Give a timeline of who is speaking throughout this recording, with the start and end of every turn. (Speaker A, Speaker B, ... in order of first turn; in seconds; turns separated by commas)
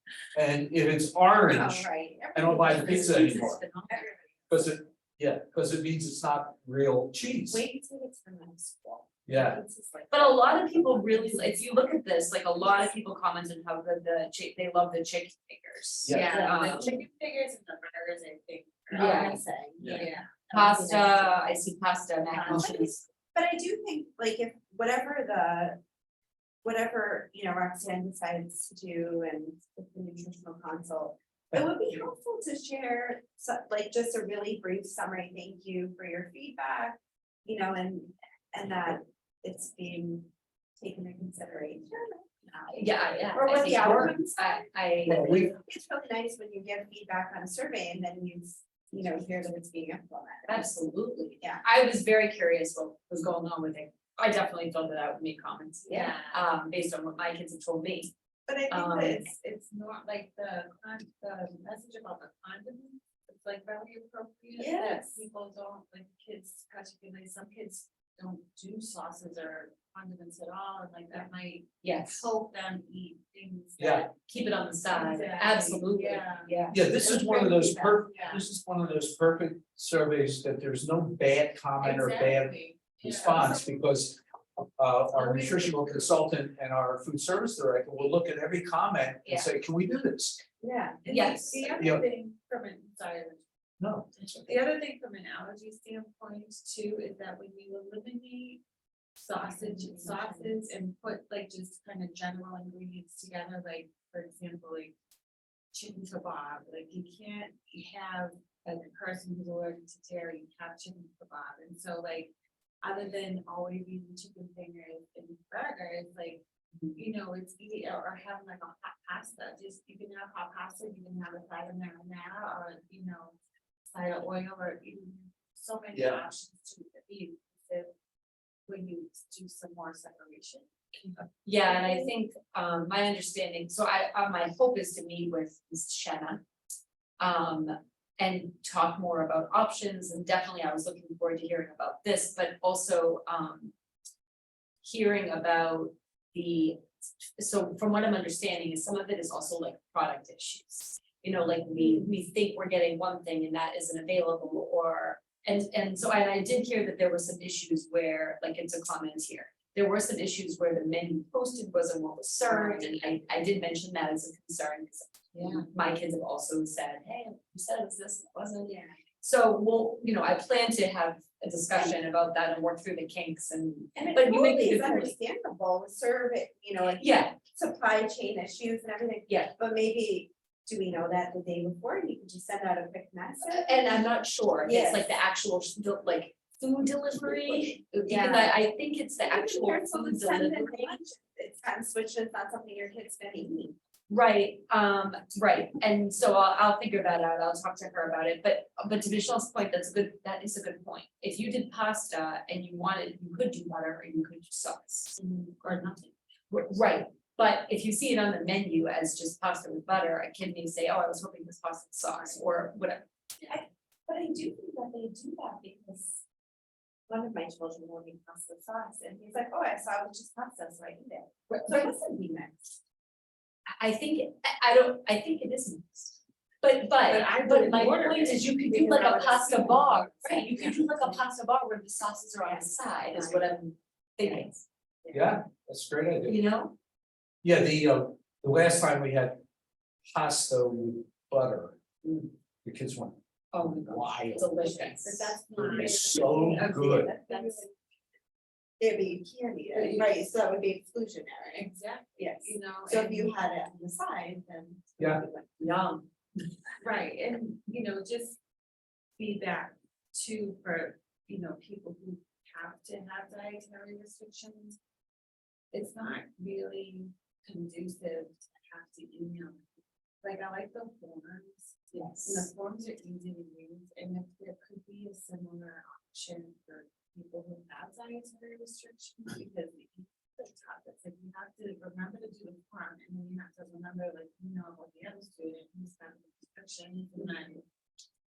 Speaker A: 0.3-3.6, Speaker B: 1.5-4.2, Speaker C: 2.7-4.1, Speaker A: 4.5-7.6, Speaker B: 7.5-11.9, Speaker A: 9.3-9.6, Speaker C: 10.1-16.9, Speaker B: 12.6-12.9, Speaker A: 16.0-16.3, Speaker D: 16.1-21.0, Speaker B: 16.3-16.9, Speaker B: 18.9-21.5, Speaker C: 18.9-19.4, Speaker A: 19.8-20.0, Speaker C: 20.5-23.0, Speaker B: 22.3-25.8, Speaker B: 26.6-50.7, Speaker C: 42.7-45.5, Speaker A: 43.7-44.1, Speaker A: 45.1-45.5, Speaker C: 50.5-58.1, Speaker D: 55.9-56.4, Speaker B: 58.5-59.3, Speaker C: 58.7-59.3, Speaker D: 59.3-73.9, Speaker B: 64.5-65.2, Speaker C: 71.8-72.3, Speaker A: 73.8-74.1, Speaker C: 73.8-76.8, Speaker D: 74.9-76.5, Speaker A: 76.7-90.4, Speaker B: 76.9-78.0, Speaker D: 78.0-78.4, Speaker D: 81.8-83.6, Speaker D: 85.1-86.1, Speaker B: 90.6-91.9, Speaker D: 91.0-93.4, Speaker C: 91.1-91.7, Speaker A: 91.8-92.0, Speaker A: 93.8-94.5, Speaker D: 94.4-98.6, Speaker D: 99.2-104.9, Speaker B: 99.5-100.6, Speaker D: 105.7-112.3, Speaker D: 112.8-116.4, Speaker D: 116.9-123.3, Speaker D: 123.9-127.9, Speaker A: 125.9-126.2, Speaker D: 128.7-131.9, Speaker C: 131.4-136.4, Speaker C: 137.2-143.7, Speaker C: 144.8-146.8, Speaker C: 147.4-175.2, Speaker B: 151.8-152.1, Speaker B: 162.5-163.0, Speaker D: 165.3-165.7, Speaker B: 168.6-169.0, Speaker B: 173.9-184.0, Speaker C: 176.9-177.3, Speaker C: 179.3-179.5, Speaker C: 183.5-191.0, Speaker B: 184.6-185.2, Speaker B: 187.3-188.6, Speaker B: 189.2-193.8, Speaker C: 194.1-205.2, Speaker D: 205.2-206.1, Speaker C: 206.5-213.1, Speaker B: 213.5-216.2, Speaker B: 217.1-222.8, Speaker C: 221.5-221.9, Speaker C: 223.8-234.6, Speaker D: 227.1-230.4, Speaker B: 230.6-231.1, Speaker B: 232.4-233.5, Speaker B: 234.2-234.5, Speaker A: 235.1-236.4, Speaker C: 236.3-236.7, Speaker A: 237.4-239.4, Speaker A: 240.1-241.8, Speaker A: 242.6-243.2, Speaker C: 243.5-245.4, Speaker A: 243.8-244.5, Speaker D: 244.6-247.7, Speaker A: 245.5-247.1, Speaker C: 246.4-247.0, Speaker B: 246.8-247.7, Speaker B: 248.8-255.5, Speaker D: 249.7-250.1, Speaker D: 251.6-253.3, Speaker C: 255.6-256.0, Speaker D: 256.8-258.4, Speaker D: 259.2-264.8, Speaker D: 265.7-269.7, Speaker D: 270.2-287.6, Speaker C: 271.9-272.5